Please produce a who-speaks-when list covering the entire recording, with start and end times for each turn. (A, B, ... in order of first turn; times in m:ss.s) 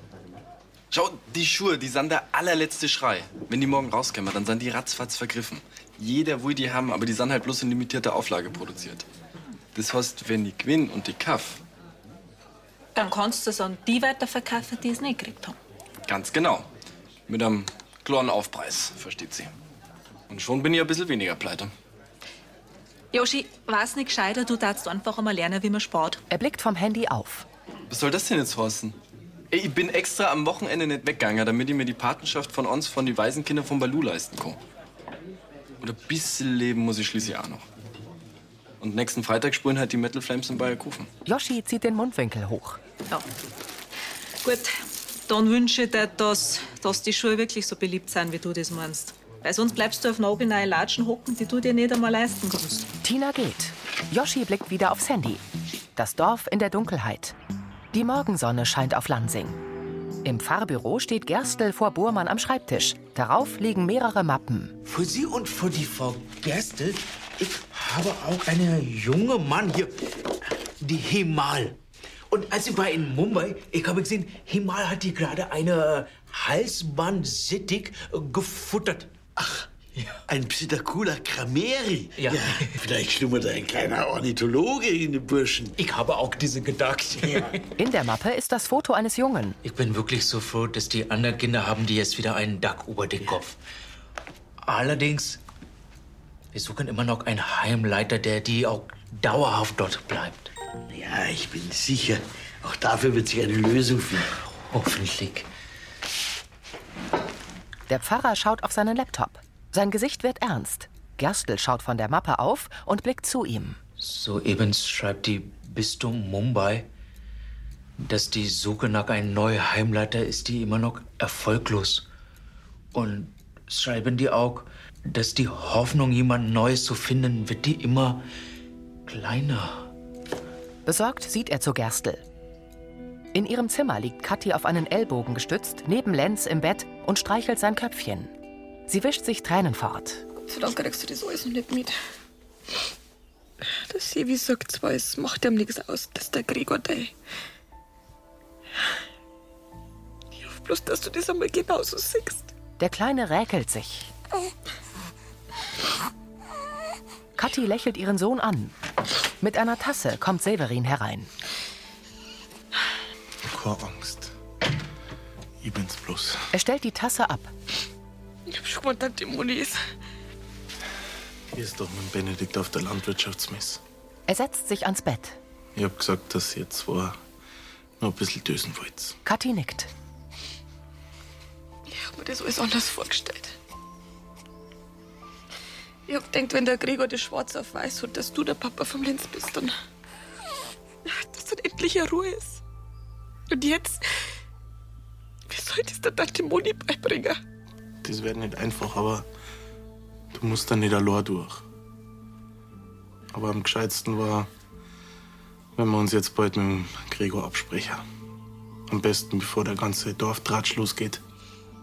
0:00.9-0:09.0 A
0:09.7-0:11.6 A
0:13.0-0:15.6 B
0:16.1-0:16.7 A
0:17.3-0:19.5 A
0:20.3-0:21.7 A
0:23.1-0:26.2 B
0:26.3-0:27.4 C
0:27.9-0:29.0 A
0:29.5-0:34.6 A
0:35.8-0:37.6 A
0:38.8-0:41.1 A
0:41.2-0:42.8 C
0:44.4-0:44.7 B
0:45.3-0:52.9 B
0:53.0-0:55.4 C
0:55.9-0:57.4 C
0:57.9-0:59.6 C
1:00.2-1:04.8 C
1:04.8-1:10.0 D
1:10.8-1:11.8 D
1:12.3-1:19.2 D
1:20.3-1:25.7 E
1:22.2-1:22.7 D
1:25.8-1:27.5 D
1:27.2-1:27.5 E
1:27.8-1:29.6 C
1:29.6-1:33.6 D
1:34.6-1:35.4 D
1:36.5-1:40.5 D
1:40.9-1:44.3 E
1:44.7-1:45.5 D
1:47.9-1:53.8 C
1:54.0-1:56.9 D
1:58.0-2:02.0 D
2:02.9-2:08.3 D
2:09.1-2:09.9 D
2:10.8-2:12.2 C
2:13.3-2:18.3 C
2:18.9-2:20.2 C
2:20.5-2:21.9 F
2:23.6-2:27.1 F
2:30.4-2:32.5 F
2:32.8-2:34.1 C
2:37.4-2:38.7 C
2:39.4-2:41.3 C
2:43.4-2:44.3 G
2:45.6-2:46.4 G
2:46.5-2:47.5 C
2:48.5-2:49.8 F
2:51.5-2:53.8 G
2:54.3-2:55.4 C
2:55.8-2:57.2 G
2:58.0-2:59.2 G
2:59.2-2:59.9 C
3:01.9-3:03.5 F
3:06.1-3:09.7 F
3:11.0-3:12.6 F
3:13.5-3:14.0 F
3:15.5-3:17.4 F
3:18.0-3:19.2 G
3:20.3-3:21.6 G
3:23.3-3:24.5 G
3:25.8-3:28.0 G
3:28.9-3:31.2 G